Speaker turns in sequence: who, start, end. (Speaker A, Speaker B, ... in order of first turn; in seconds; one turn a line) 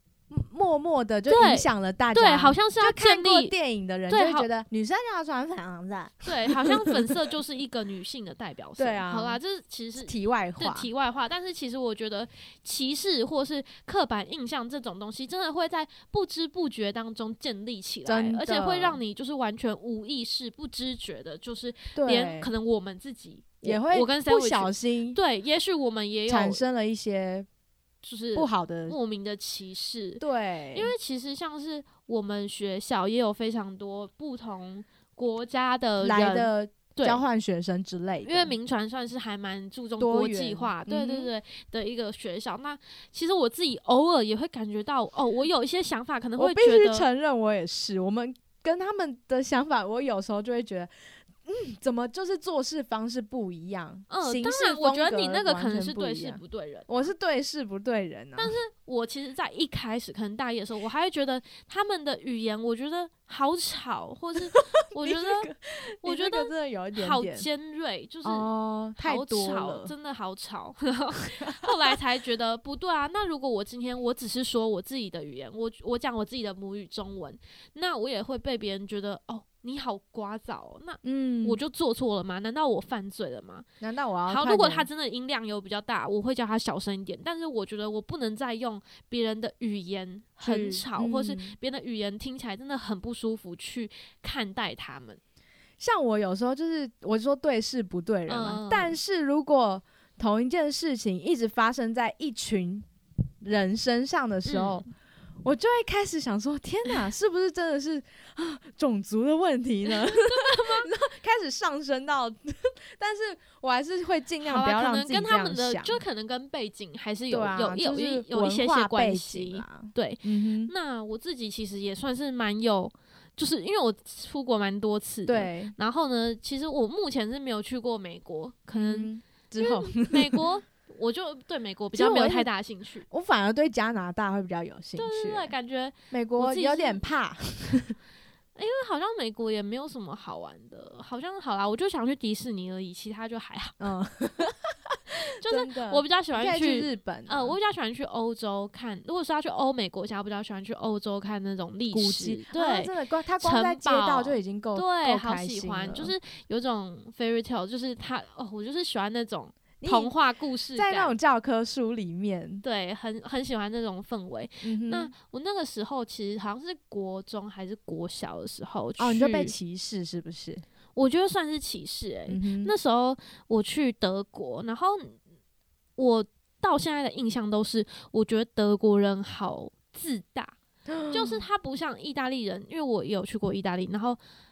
Speaker A: 0.3-7.1
Speaker B: 1.3-3.5
Speaker B: 4.1-4.5
Speaker B: 6.2-26.6
Speaker A: 8.8-9.4
Speaker A: 10.0-10.9
Speaker A: 18.1-19.0
Speaker A: 21.9-22.5
Speaker A: 23.6-25.2
Speaker A: 26.3-27.5
Speaker B: 28.0-37.2
Speaker A: 28.3-28.9
Speaker A: 30.2-30.9
Speaker A: 36.0-38.5
Speaker B: 38.2-47.1
Speaker A: 40.0-41.3
Speaker A: 46.4-50.9
Speaker A: 51.4-58.5
Speaker B: 54.1-57.1
Speaker B: 58.4-65.5
Speaker A: 64.4-67.5
Speaker B: 66.0-83.6
Speaker A: 68.2-69.9
Speaker A: 71.4-71.9
Speaker A: 81.0-81.6
Speaker A: 83.8-84.9
Speaker B: 84.3-95.2
Speaker A: 90.4-91.6
Speaker A: 95.8-102.8
Speaker B: 98.3-99.0
Speaker A: 103.4-104.9
Speaker B: 104.5-104.8
Speaker A: 105.4-116.0
Speaker B: 109.9-110.9
Speaker B: 114.4-133.1
Speaker A: 117.3-120.7
Speaker A: 125.2-125.7
Speaker A: 128.7-130.5
Speaker A: 131.9-132.5
Speaker A: 133.1-135.5
Speaker B: 134.9-137.0
Speaker A: 136.1-137.9
Speaker B: 138.5-143.9
Speaker A: 143.8-144.5
Speaker A: 145.4-147.6
Speaker B: 145.4-161.2
Speaker A: 151.9-156.1
Speaker A: 159.8-160.1
Speaker A: 160.7-162.6
Speaker B: 162.6-169.5
Speaker A: 164.6-165.1
Speaker A: 169.0-170.6
Speaker B: 170.9-175.2
Speaker A: 172.3-172.7
Speaker B: 176.0-180.6
Speaker A: 180.9-181.4
Speaker B: 181.1-184.2